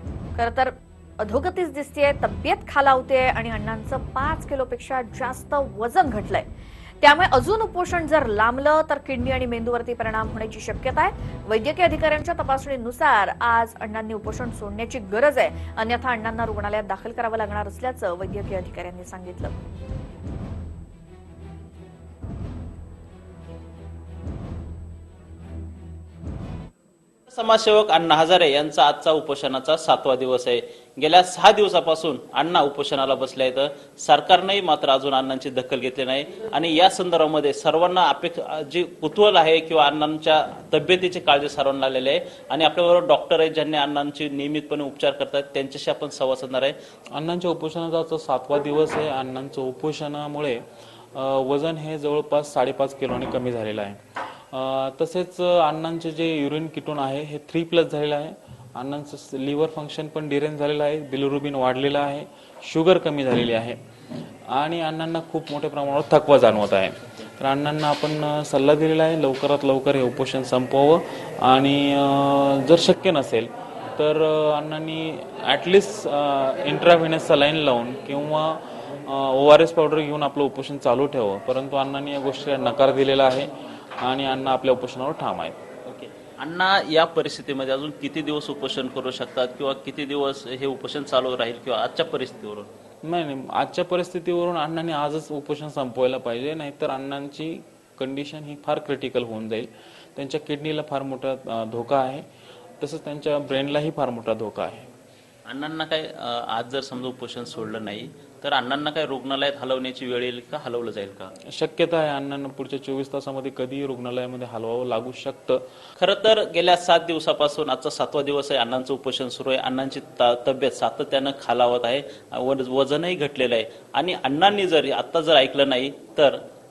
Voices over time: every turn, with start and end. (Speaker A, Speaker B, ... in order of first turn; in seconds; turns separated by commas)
Speaker A: 0.4-6.5, Speaker A: 7.0-19.5, Speaker B: 27.3-46.8, Speaker C: 47.1-50.6, Speaker C: 51.1-63.8, Speaker C: 64.5-83.5, Speaker C: 84.0-85.6, Speaker B: 85.9-92.7, Speaker C: 93.0-102.2, Speaker C: 102.8-104.9, Speaker B: 105.5-111.3, Speaker C: 111.5-115.6, Speaker B: 116.0-126.4